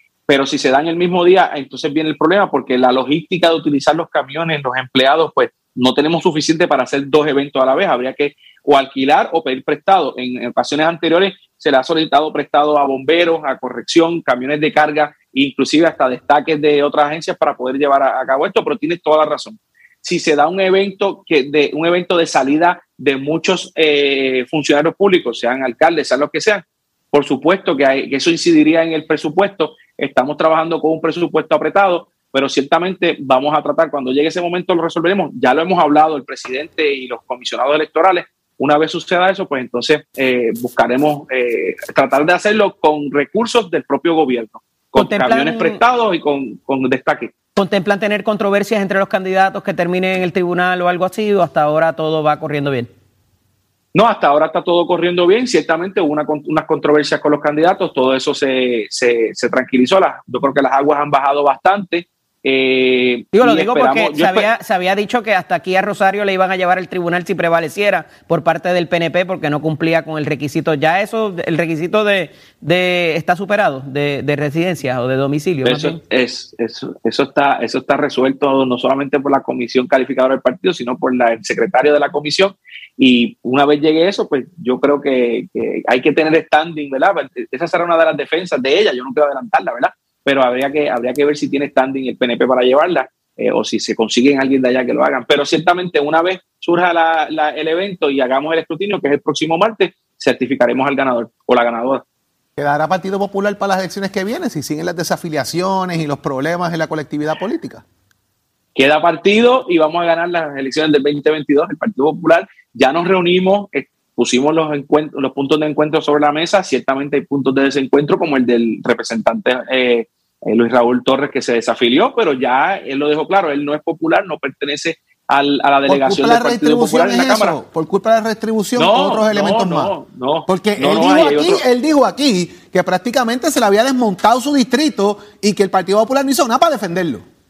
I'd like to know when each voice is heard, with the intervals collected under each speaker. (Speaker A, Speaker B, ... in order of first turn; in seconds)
Speaker A: 0.3-47.3, 53.9-64.5, 75.6-102.0, 108.8-127.6, 128.8-131.6
Speaker B: 44.9-45.8, 47.5-52.9, 63.3-76.0
Speaker C: 102.6-107.8, 125.9-129.9, 130.5-137.2